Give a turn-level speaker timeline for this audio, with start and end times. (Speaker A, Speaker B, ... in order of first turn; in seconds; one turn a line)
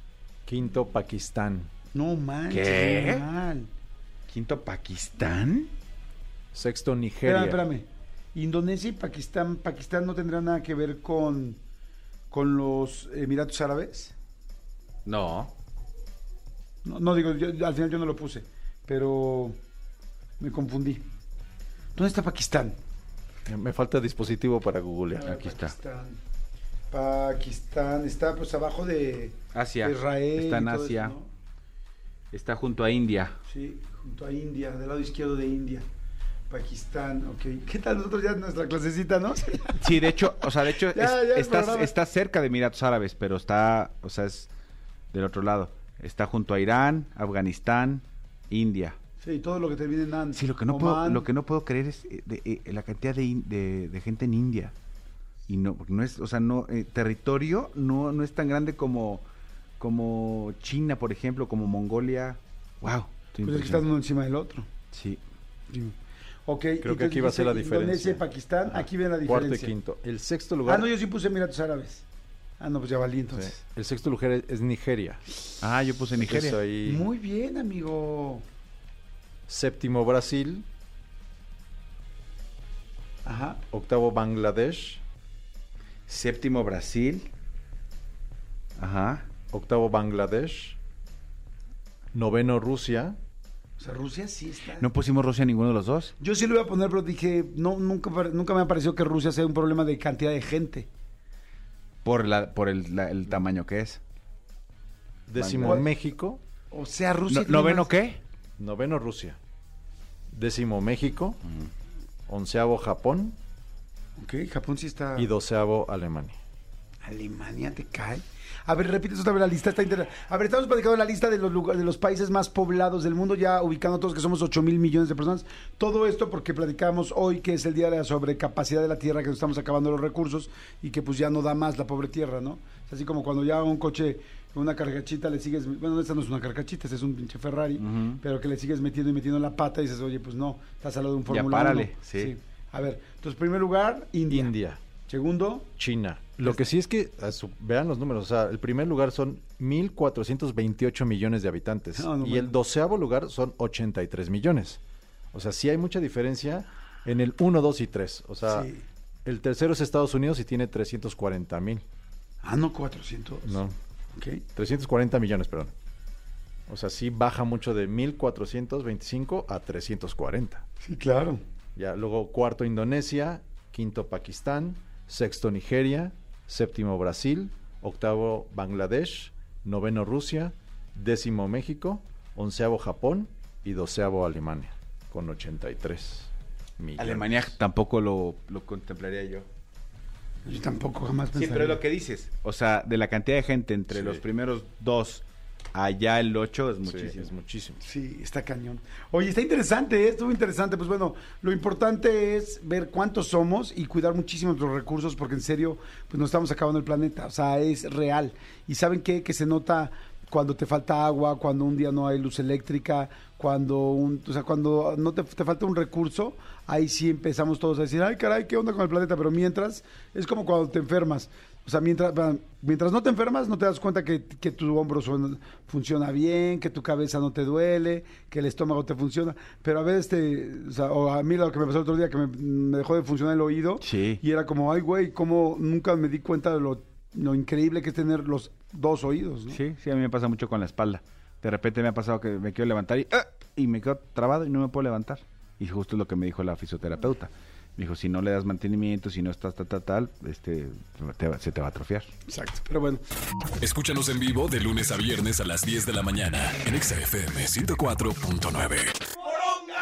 Speaker A: 0.5-1.7
Speaker B: 1.9-3.7
Speaker C: 2.5-3.2
Speaker C: 4.3-5.7
Speaker A: 6.5-7.7
Speaker B: 7.2-11.6
Speaker B: 12.3-14.1
Speaker C: 15.1-15.5
Speaker B: 16.8-19.6
Speaker B: 20.4-21.1
Speaker B: 21.9-22.8
Speaker A: 23.5-25.4
Speaker B: 25.1-26.2
Speaker C: 25.2-25.7
Speaker B: 26.9-31.3
Speaker C: 29.5-31.1
Speaker C: 32.3-33.4
Speaker B: 33.5-35.9
Speaker B: 36.5-41.9
Speaker C: 39.8-44.5
Speaker C: 45.1-49.0
Speaker B: 49.2-51.3
Speaker C: 50.3-54.7
Speaker C: 55.5-59.2
Speaker C: 59.8-63.8
Speaker B: 63.4-64.7
Speaker C: 64.9-65.2
Speaker B: 66.5-69.7
Speaker A: 66.8-70.9
Speaker B: 70.6-72.0
Speaker B: 72.6-73.6
Speaker A: 73.3-75.2
Speaker C: 75.6-76.6
Speaker A: 76.2-77.0
Speaker B: 76.8-78.4
Speaker A: 79.5-80.7
Speaker B: 83.2-83.6
Speaker A: 83.7-85.0
Speaker C: 86.1-87.3
Speaker C: 88.8-89.2
Speaker A: 89.5-90.8
Speaker A: 92.1-93.2
Speaker B: 93.8-94.9
Speaker C: 94.8-96.1
Speaker B: 96.2-100.9
Speaker C: 102.0-104.0
Speaker A: 105.3-106.4
Speaker C: 105.3-105.9
Speaker B: 105.6-105.9
Speaker B: 106.7-107.9
Speaker C: 107.3-108.2
Speaker A: 108.6-109.4
Speaker A: 110.3-111.4
Speaker A: 112.3-113.4
Speaker B: 114.2-115.3
Speaker A: 115.2-116.4
Speaker B: 117.0-144.5
Speaker C: 137.8-138.2
Speaker C: 141.3-142.3
Speaker A: 144.3-144.8
Speaker B: 145.1-145.7
Speaker A: 145.8-154.8
Speaker B: 146.4-146.7
Speaker B: 152.0-152.6
Speaker A: 155.3-158.7
Speaker B: 158.4-158.8
Speaker A: 159.2-161.8
Speaker B: 162.4-163.6
Speaker A: 163.5-163.8
Speaker B: 164.2-164.4
Speaker A: 164.6-165.7
Speaker A: 166.7-170.6
Speaker B: 170.8-171.4
Speaker A: 171.8-187.6
Speaker C: 187.0-189.5
Speaker B: 190.4-191.8
Speaker C: 191.3-197.3
Speaker A: 193.9-194.2
Speaker A: 196.8-197.8
Speaker B: 197.8-239.6
Speaker C: 233.8-234.2
Speaker C: 239.5-252.1
Speaker B: 252.3-253.0
Speaker D: 253.6-259.1